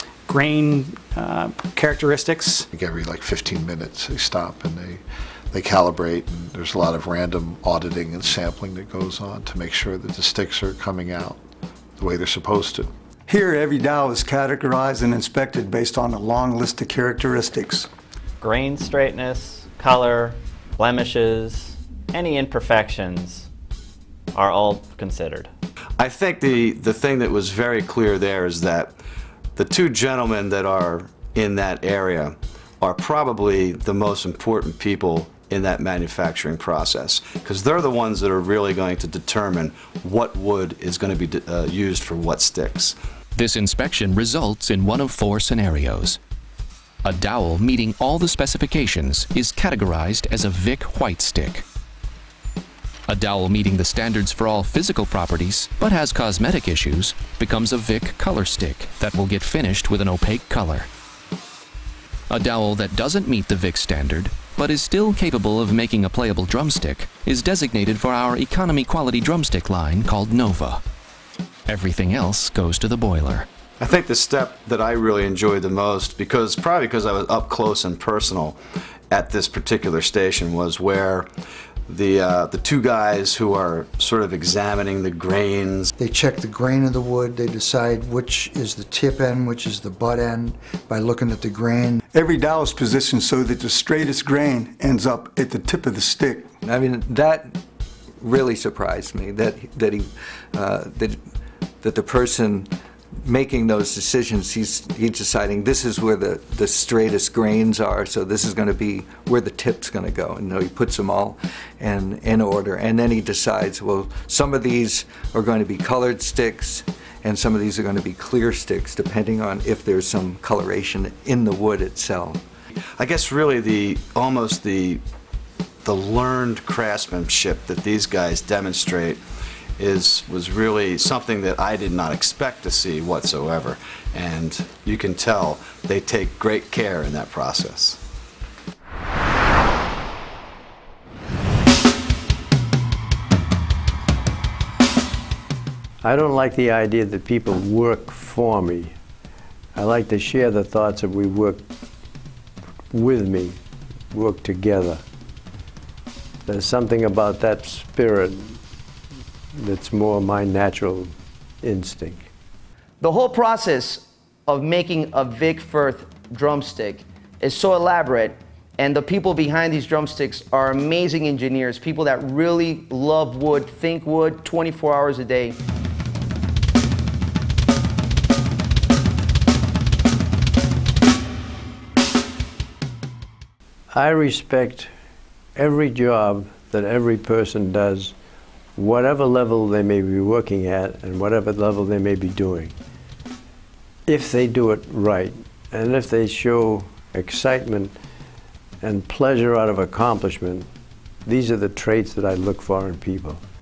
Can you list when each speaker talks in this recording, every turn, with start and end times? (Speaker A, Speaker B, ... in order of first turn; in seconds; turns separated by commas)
Speaker A: 0.3-2.7, Speaker B: 2.7-11.4, Speaker B: 12.0-12.9, Speaker C: 13.3-17.9, Speaker D: 18.4-23.5, Speaker D: 24.3-25.5, Speaker E: 26.0-28.9, Speaker E: 29.6-43.0, Speaker F: 43.4-46.2, Speaker F: 47.0-51.6, Speaker F: 53.1-60.9, Speaker F: 62.3-70.8, Speaker F: 71.7-73.5, Speaker E: 73.8-78.6, Speaker E: 79.1-81.3, Speaker E: 81.9-85.9, Speaker G: 86.0-92.0, Speaker C: 92.1-96.5, Speaker H: 96.6-97.5, Speaker H: 98.2-101.2, Speaker H: 101.8-102.7, Speaker H: 103.2-122.4, Speaker E: 123.0-125.0, Speaker E: 125.8-129.2, Speaker E: 129.8-138.0, Speaker I: 146.0-148.9, Speaker I: 149.7-151.6, Speaker I: 152.9-153.6, Speaker I: 154.1-155.0, Speaker I: 156.5-158.6, Speaker I: 159.6-162.3, Speaker J: 163.0-175.6, Speaker I: 183.9-184.9, Speaker I: 185.6-188.1, Speaker I: 188.8-192.7, Speaker I: 194.1-197.9, Speaker I: 198.8-200.7, Speaker I: 201.2-203.4